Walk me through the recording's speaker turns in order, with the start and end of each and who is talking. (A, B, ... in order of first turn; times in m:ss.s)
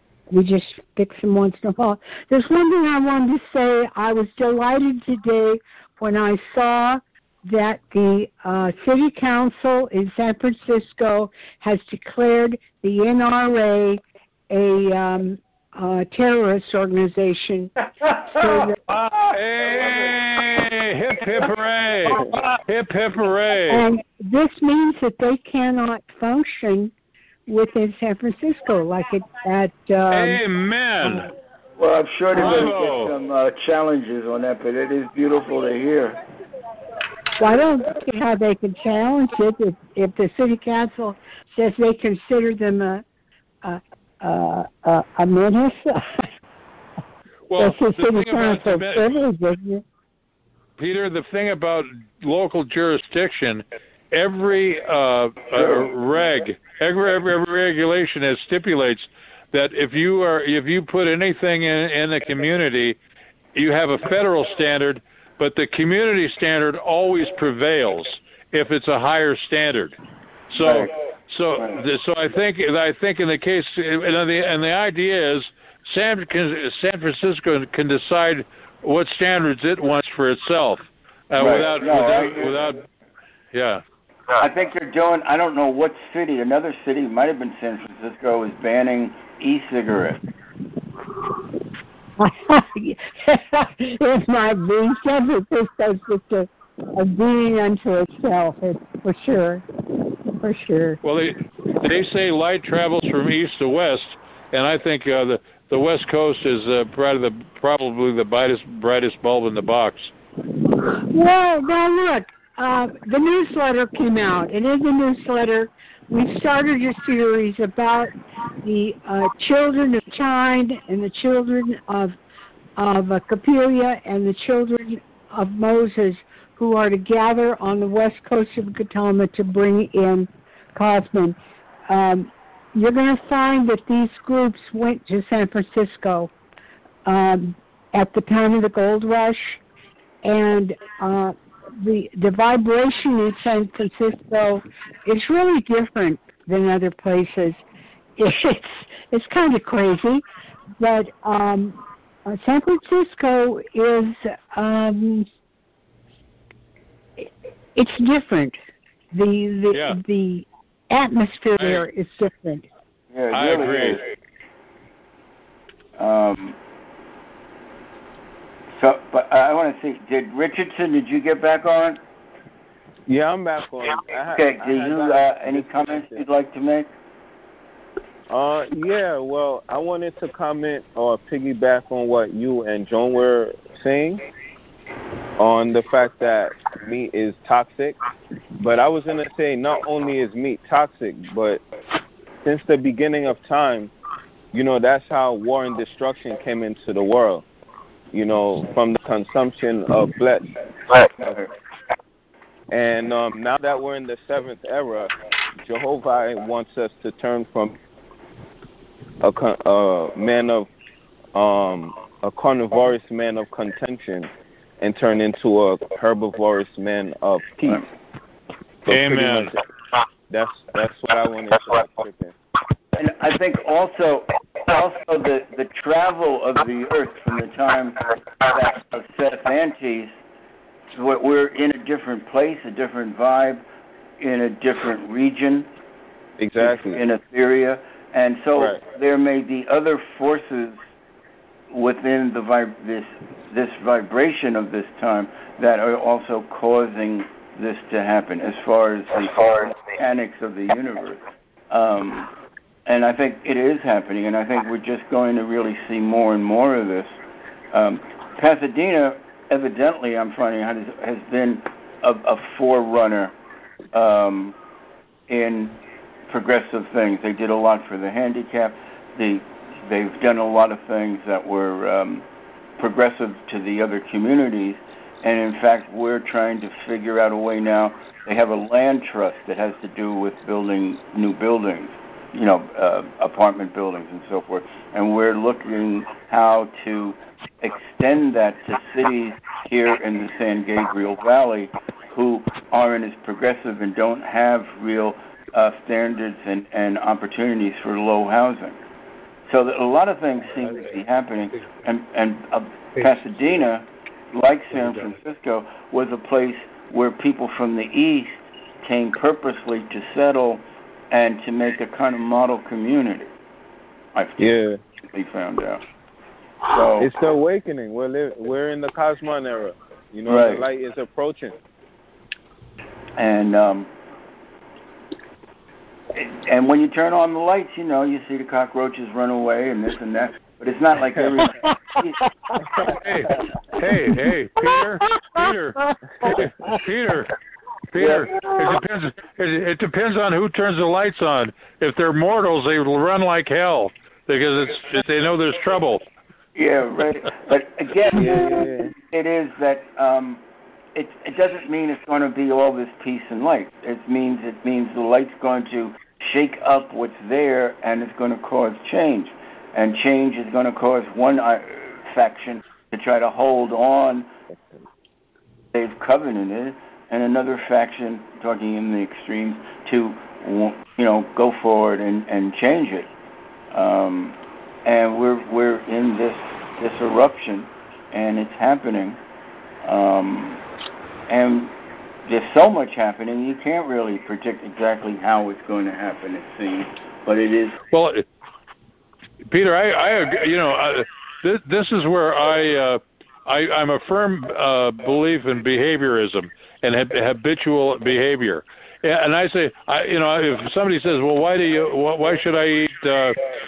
0:00.3-0:17.7 A
0:18.0-0:23.8 B
0:18.2-0:18.8 A
0:23.7-0:26.9 A
0:27.5-0:30.4 A
0:30.1-0:31.3 B
0:31.8-0:36.2 C
0:32.3-0:33.1 B
0:37.4-0:43.0 A
0:43.6-0:46.3 A
0:47.5-0:49.1 B
0:47.5-0:49.8 A
0:50.8-1:03.0 B
0:55.5-0:55.9 C
1:03.5-1:10.0 B
1:10.5-1:22.8 B
1:10.6-1:10.9 C
1:21.4-1:22.7 C
1:23.5-1:23.8 B
1:24.4-1:30.2 C
1:32.2-1:39.6 A
1:40.4-1:41.0 A
1:41.0-1:50.1 B
1:51.0-1:58.1 A
1:58.6-2:02.2 A
2:02.8-2:16.3 A
2:17.0-2:19.6 A
2:20.2-2:27.6 A
2:28.2-2:30.2 A
2:30.8-2:35.3 A
2:37.2-2:38.6 A
2:39.1-2:42.7 A
2:39.7-2:40.0 B
2:41.6-2:41.8 B
2:43.1-2:44.0 C
2:43.3-2:44.0 B
2:46.0-2:46.6 C
2:48.8-2:52.0 C
2:53.1-2:56.2 D
2:54.3-2:56.9 C
2:58.3-3:04.2 D
3:05.4-3:08.0 D
3:08.6-3:11.6 D
3:12.4-3:13.9 D
3:14.5-3:17.4 D
3:18.1-3:20.5 D
3:21.2-3:21.5 C
3:22.7-3:27.8 D
3:29.2-3:30.7 D
3:31.3-3:37.8 D
3:38.8-3:39.6 D
3:38.9-3:39.5 B
3:40.3-3:42.3 D
3:43.0-3:50.1 C
3:50.9-3:53.6 C
3:54.2-3:55.7 C
3:56.4-3:57.0 D
3:56.6-4:00.8 C
3:58.6-3:58.8 D
4:01.7-4:12.3 C
4:12.8-4:17.2 C
4:17.7-4:23.3 C
4:23.9-4:24.6 C
4:25.3-4:32.2 C
4:32.8-4:58.8 C
4:59.5-5:13.3 C
5:14.1-5:14.4 C
5:14.4-5:14.8 D
5:15.1-5:15.8 C
5:16.7-5:17.1 C
5:17.0-5:21.6 D
5:20.2-5:20.6 C
5:23.2-5:23.9 C
5:26.1-5:32.2 C
5:32.8-5:37.3 B
5:37.9-5:46.0 B
5:38.0-5:38.3 C
5:46.5-5:50.4 C
5:48.1-5:48.9 D
5:50.9-6:04.3 C
6:05.7-6:13.1 C
6:13.7-6:19.2 C
6:19.8-6:20.6 C
6:21.3-6:21.7 C
6:22.2-6:27.8 C
6:27.9-6:28.2 B
6:29.4-6:43.4 B